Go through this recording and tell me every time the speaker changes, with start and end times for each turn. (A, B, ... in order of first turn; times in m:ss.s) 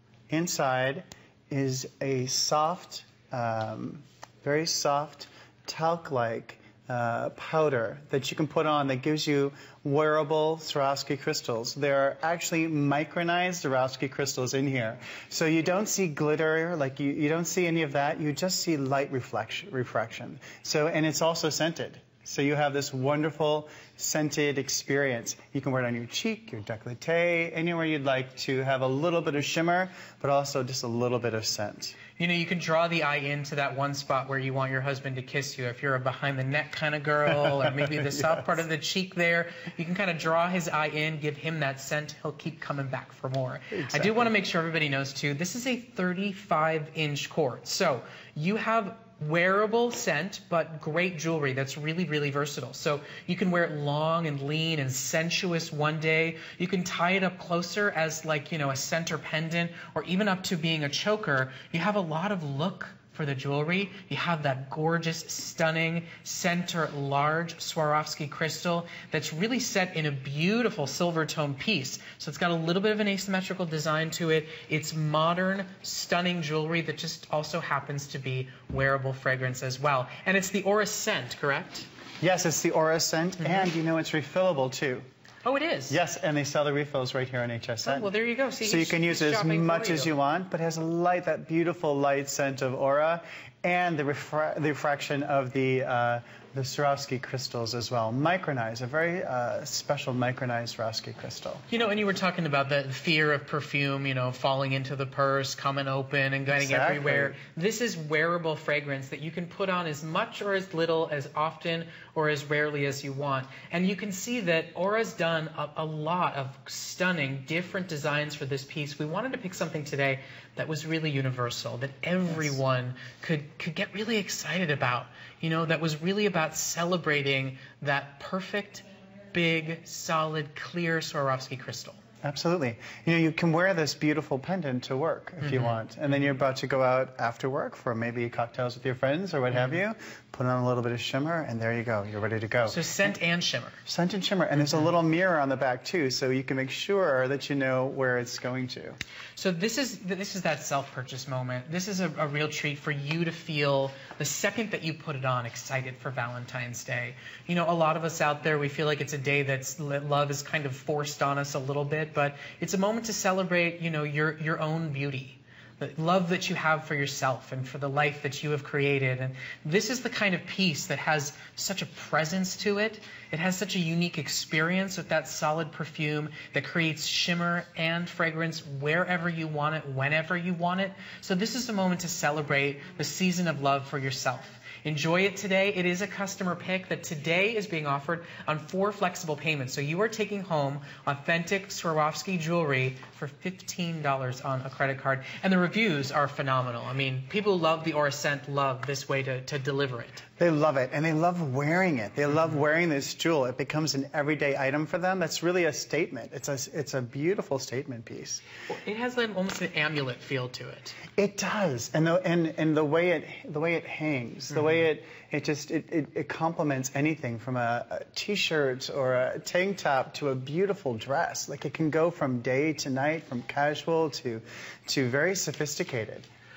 0:00.3-0:32.0 A
0:32.2-1:21.9 B
0:37.7-0:38.5 A
0:43.7-0:44.3 A
1:22.2-1:25.1 A
1:25.4-1:26.0 B
1:25.9-1:41.6 A
1:27.8-1:30.1 B
1:41.7-2:12.0 B
1:46.5-1:47.4 A
2:12.2-2:22.9 A
2:15.4-2:15.8 B
2:22.7-2:23.8 B
2:23.9-2:29.0 A
2:29.4-3:20.2 B
3:20.4-3:28.4 A
3:28.7-3:31.0 B
3:31.2-3:46.3 A